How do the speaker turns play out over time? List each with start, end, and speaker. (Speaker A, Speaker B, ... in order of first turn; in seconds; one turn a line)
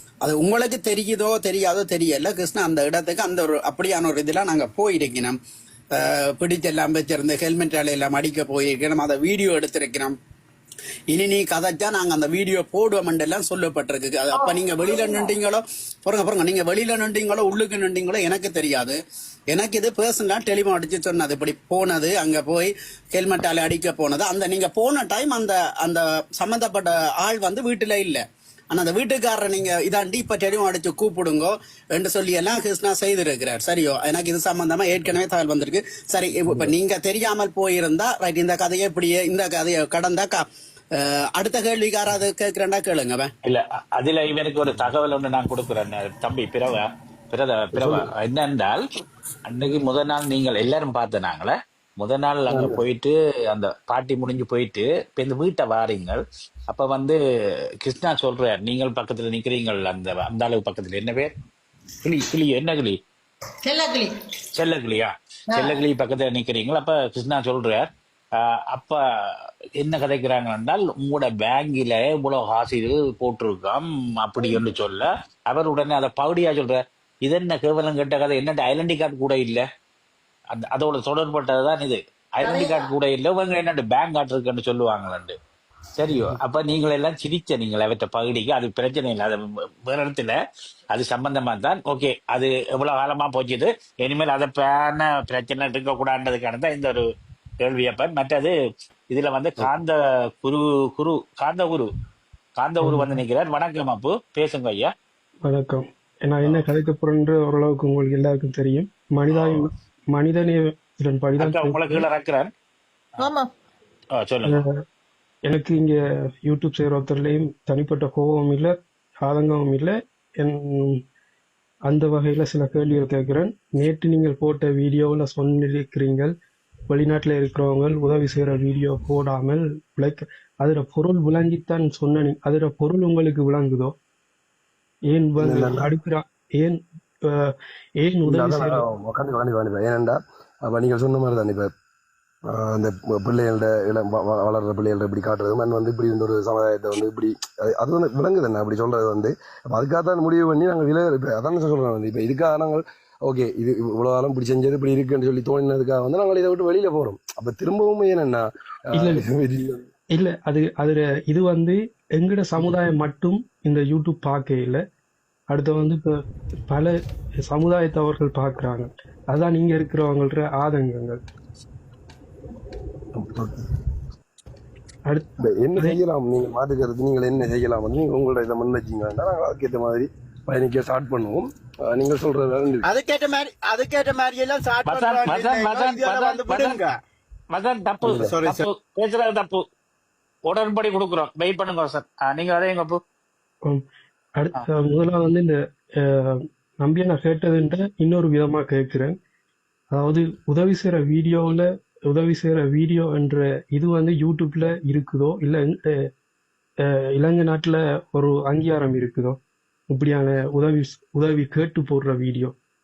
Speaker A: 0.2-5.4
Speaker A: 6.0-10.2
Speaker A: 11.1-19.0
Speaker B: 14.3-15.3
Speaker A: 19.5-43.3
Speaker C: 43.5-48.8
Speaker D: 47.7-48.1
Speaker C: 49.5-57.2
Speaker D: 52.5-52.8
Speaker C: 57.8-61.3
Speaker C: 62.0-63.0
Speaker B: 63.6-64.2
Speaker C: 64.6-69.0
Speaker B: 65.5-65.8
Speaker C: 69.8-79.7
Speaker C: 80.5-85.4
Speaker B: 82.4-82.9
Speaker C: 86.0-90.4
Speaker D: 86.1-86.4
Speaker C: 90.9-97.0
Speaker C: 97.6-98.5
Speaker C: 99.1-101.9
Speaker C: 102.6-104.9
Speaker E: 102.8-103.2
Speaker E: 105.5-112.1
Speaker C: 111.4-112.5
Speaker B: 113.2-113.5
Speaker C: 114.1-114.6
Speaker E: 114.5-114.8
Speaker E: 115.5-121.0
Speaker E: 121.9-126.3
Speaker E: 126.9-133.9
Speaker E: 135.1-138.9
Speaker D: 135.4-135.9
Speaker D: 138.2-141.7
Speaker D: 142.5-159.9
Speaker E: 158.9-159.3
Speaker E: 160.1-164.8
Speaker E: 165.5-166.2
Speaker E: 166.7-171.2
Speaker D: 173.1-173.7
Speaker E: 175.1-176.0
Speaker D: 175.4-182.9
Speaker A: 182.8-186.9
Speaker C: 184.8-186.9
Speaker C: 187.5-189.6
Speaker D: 188.0-188.3
Speaker A: 188.1-188.7
Speaker C: 190.5-193.0
Speaker E: 194.4-199.2
Speaker E: 199.9-206.1
Speaker E: 206.8-209.4
Speaker E: 209.9-212.6